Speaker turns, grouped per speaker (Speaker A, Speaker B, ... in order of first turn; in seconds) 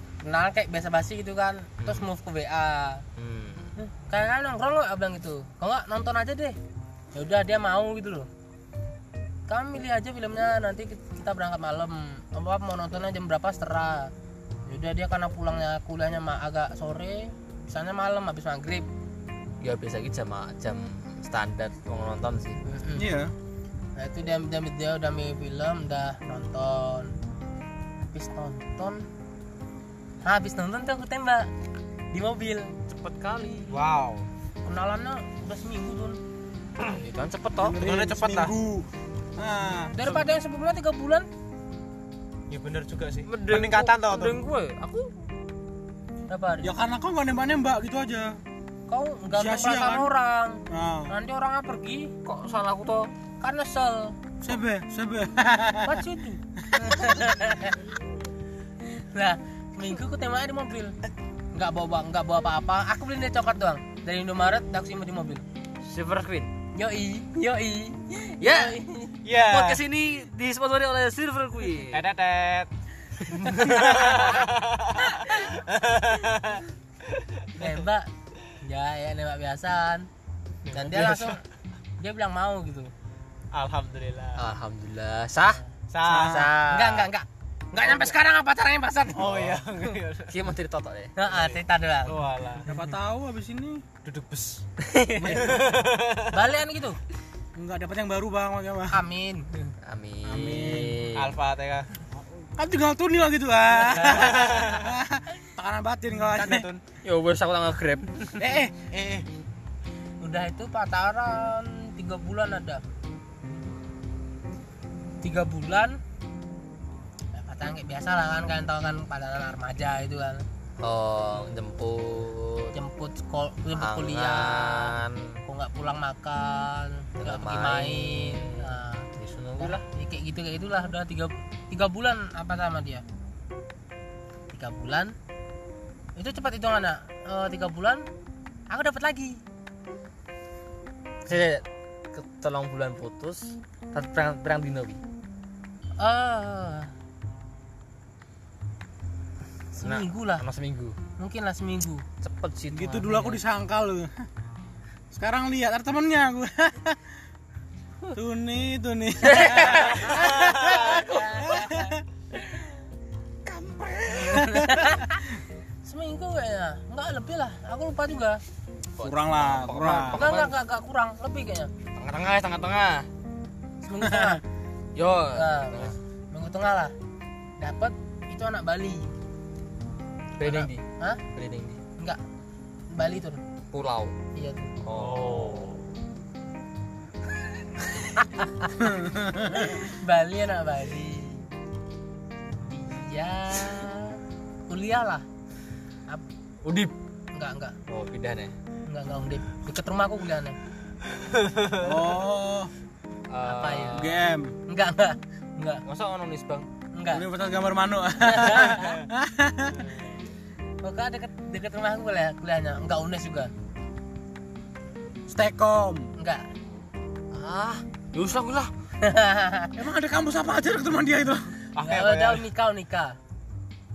Speaker A: 0.2-3.0, 3.8-6.6, 7.2-8.3, 9.5-14.1, 14.7-18.9, 22.7-23.1, 24.0-27.1, 28.1-29.1, 30.2-31.5, 32.1-32.7, 34.6-36.2, 39.9-41.3, 46.3-46.7, 48.9-52.1, 53.4-54.2, 55.8-57.8, 58.9-60.9, 61.5-65.4, 66.8-69.2, 73.5-73.8, 77.6-78.1, 78.6-80.1, 80.7-81.4, 82.0-82.9, 86.7-89.6, 91.2-92.2, 96.3-97.0, 98.9-99.7, 110.2-112.8, 115.2-116.0, 117.3-120.5, 122.7-133.0, 134.5-135.1, 136.2-138.1, 138.7-139.4, 146.0-146.9, 149.8-150.4, 151.2-152.1, 160.1-161.8, 164.3-165.2, 165.8-168.4, 170.1-171.7, 173.8-174.4, 175.3-176.9, 177.6-179.1, 180.4-181.2, 182.9-183.4, 184.3-184.7, 188.1-191.5, 192.6-195.2, 197.3-197.8, 198.9-200.6, 203.4-204.1, 204.7-205.8, 206.9-207.2, 208.2-209.0, 210.8-213.5, 216.2-216.4, 219.0-219.8, 221.8-223.2
Speaker B: 1.8-2.1, 3.2-3.7, 19.6-22.6, 32.9-33.8, 36.8-37.8, 43.3-45.1, 52.2-53.1, 65.8-66.5, 68.4-68.8, 69.4-72.0, 73.5-74.1, 84.4-87.1, 90.3-91.1, 94.8-95.5, 99.8-101.4, 107.0-108.5, 120.8-122.7, 123.7-125.4, 127.2-129.8, 141.3-145.0, 149.8-151.0, 152.2-153.4, 159.2-161.7, 163.6-164.7, 169.0-170.6, 172.0-173.1, 174.9-175.9, 180.4-181.8, 183.7-184.2, 184.8-185.7, 196.6-196.9, 197.9-198.5, 203.3-204.2, 205.8-206.7, 217.3-218.7
Speaker C: 22.9-23.3, 37.6-40.1, 46.6-48.4, 49.3-50.1, 50.7-51.1, 54.4-56.0, 56.6-57.2, 86.0-86.5, 92.7-93.8, 95.2-95.6, 97.6-99.0, 100.2-101.0, 102.6-106.7, 108.4-109.3, 152.7-154.3, 155.1-157.0, 158.1-162.0, 163.5-164.9, 169.0-170.3, 174.0-174.4, 188.8-189.8, 201.8-202.7, 203.9-204.5, 207.1-209.8, 215.3-216.1, 219.8-221.6
Speaker D: 33.7-34.3, 37.8-38.5, 42.5-44.4, 69.2-69.8, 71.9-72.7, 73.5-76.6, 80.7-81.3, 83.5-84.5, 85.9-86.6, 89.1-90.4, 91.3-92.7, 94.0-94.6, 95.3-96.4, 101.1-101.9, 103.9-104.9, 106.3-106.8, 184.9-185.8, 201.2-202.1, 221.8-222.4